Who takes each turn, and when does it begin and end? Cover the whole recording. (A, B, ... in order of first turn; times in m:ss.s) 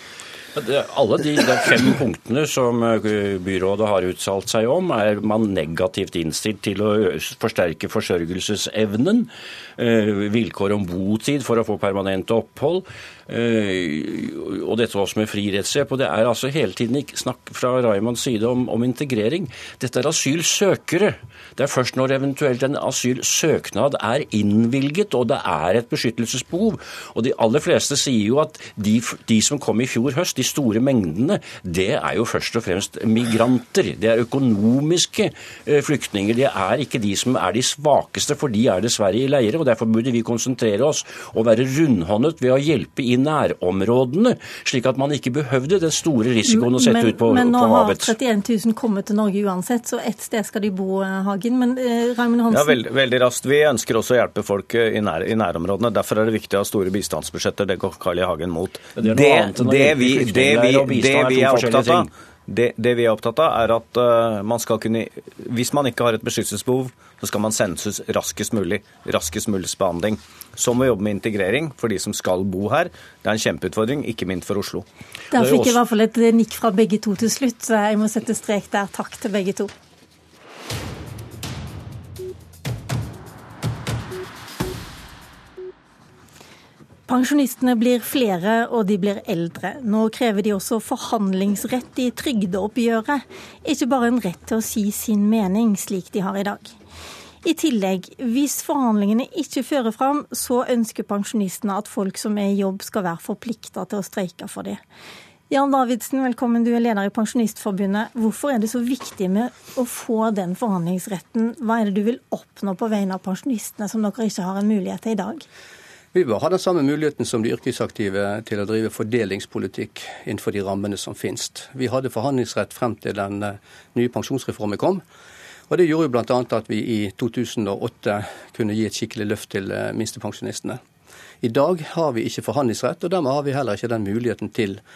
0:00.6-0:48.2 A
0:46.5-0:52.8 B
0:52.5-1:14.9 C
0:59.0-1:02.1 A
1:15.3-1:19.7 B
1:15.4-1:15.7 A
1:27.1-1:36.7 B
1:37.4-1:44.8 B
1:45.5-1:55.4 B
1:56.1-2:05.0 D
2:05.7-2:10.8 D
2:11.4-2:14.8 D